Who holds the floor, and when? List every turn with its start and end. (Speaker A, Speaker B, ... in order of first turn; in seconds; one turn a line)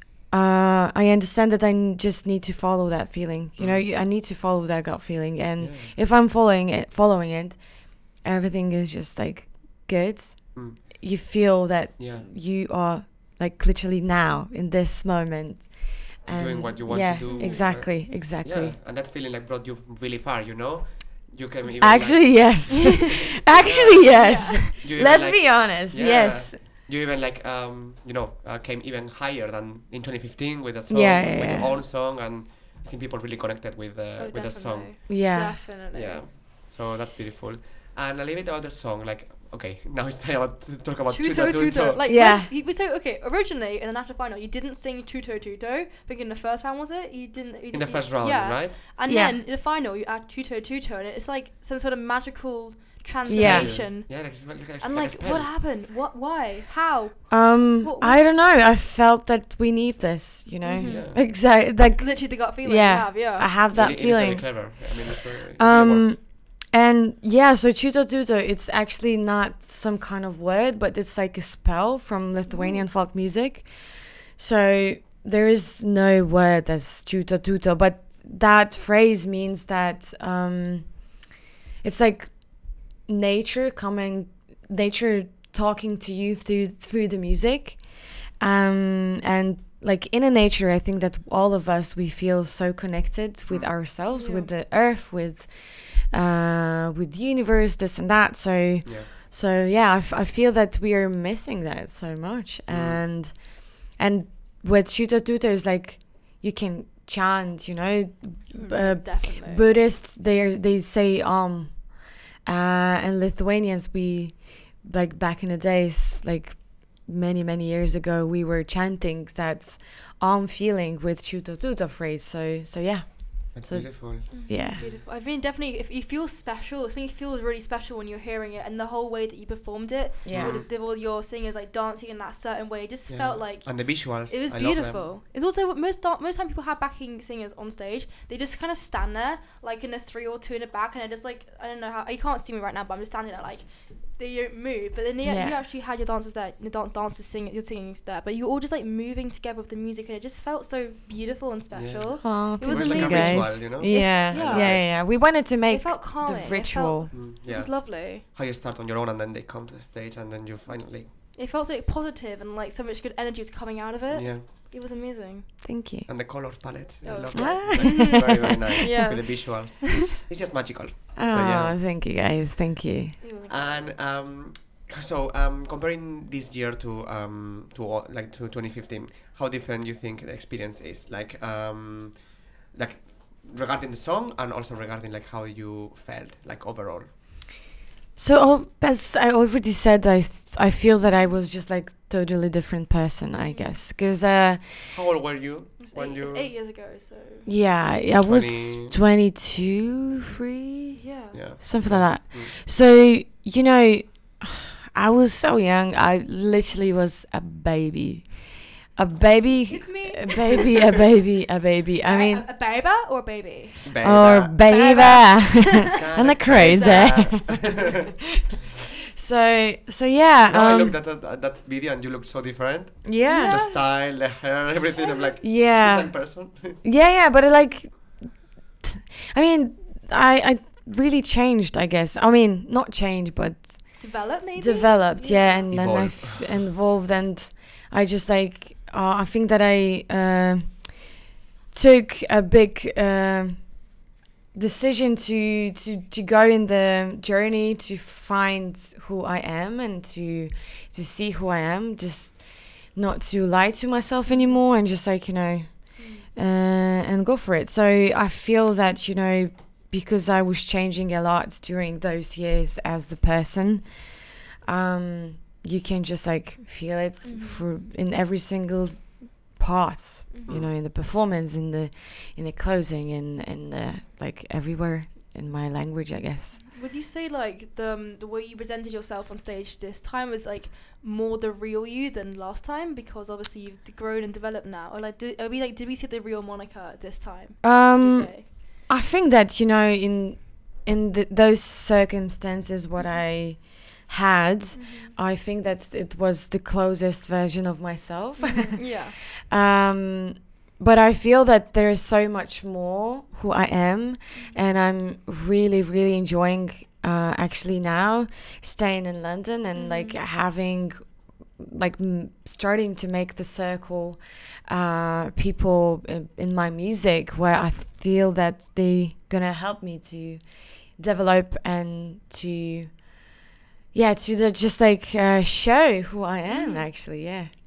Speaker A: 0.3-18.8
Speaker B: 3.6-3.9
Speaker B: 5.6-6.0
Speaker B: 10.5-11.0
Speaker B: 12.0-12.3
Speaker B: 16.3-35.1
Speaker C: 17.2-17.7
Speaker A: 21.8-26.6
Speaker C: 24.0-24.6
Speaker A: 30.9-31.8
Speaker C: 34.2-36.2
Speaker A: 35.1-35.7
Speaker B: 35.9-42.0
Speaker C: 41.1-58.2
Speaker A: 42.0-42.5
Speaker B: 47.7-48.8
Speaker A: 49.1-49.4
Speaker A: 53.3-53.8
Speaker B: 53.3-55.5
Speaker A: 57.3-65.0
Speaker C: 60.6-63.5
Speaker B: 60.8-61.2
Speaker B: 63.7-66.1
Speaker A: 65.6-81.1
Speaker C: 72.5-72.8
Speaker A: 81.8-124.8
Speaker C: 94.1-94.5
Speaker B: 102.7-103.0
Speaker C: 108.5-109.7
Speaker B: 123.5-125.0
Speaker C: 124.3-158.2
Speaker A: 130.2-130.6
Speaker B: 130.3-130.7
Speaker B: 133.1-135.1
Speaker A: 145.2-145.6
Speaker B: 151.7-154.9
Speaker A: 152.2-157.1
Speaker B: 157.1-161.1
Speaker C: 161.3-165.6
Speaker B: 164.1-164.5
Speaker A: 165.6-166.1
Speaker B: 166.1-171.8
Speaker C: 167.0-169.8
Speaker A: 167.3-168.7
Speaker A: 171.2-173.2
Speaker C: 173.2-173.9
Speaker B: 173.5-187.1
Speaker A: 188.2-194.9
Speaker C: 193.3-193.8
Speaker B: 194.9-196.5
Speaker C: 195.8-197.5
Speaker A: 197.5-201.0
Speaker B: 198.2-199.0
Speaker C: 200.9-201.4
Speaker B: 201.3-202.5
Speaker A: 201.6-212.5
Speaker C: 209.7-210.7
Speaker C: 212.0-215.9
Speaker B: 213.8-214.6
Speaker A: 214.0-217.8
Speaker B: 215.8-218.0
Speaker C: 216.4-217.3
Speaker A: 219.1-221.0
Speaker B: 220.5-226.8
Speaker A: 223.1-223.6
Speaker C: 223.2-223.9
Speaker C: 225.0-225.3
Speaker A: 225.4-241.2
Speaker C: 234.0-235.7
Speaker B: 235.7-236.7
Speaker A: 241.7-243.8
Speaker A: 244.5-276.7
Speaker C: 254.3-254.6
Speaker C: 256.0-256.3
Speaker C: 267.2-267.6
Speaker C: 276.6-288.5
Speaker A: 287.6-323.1
Speaker C: 294.7-295.1
Speaker C: 298.4-299.1
Speaker C: 304.3-304.6
Speaker C: 309.7-310.2
Speaker A: 323.9-327.5
Speaker C: 326.5-326.9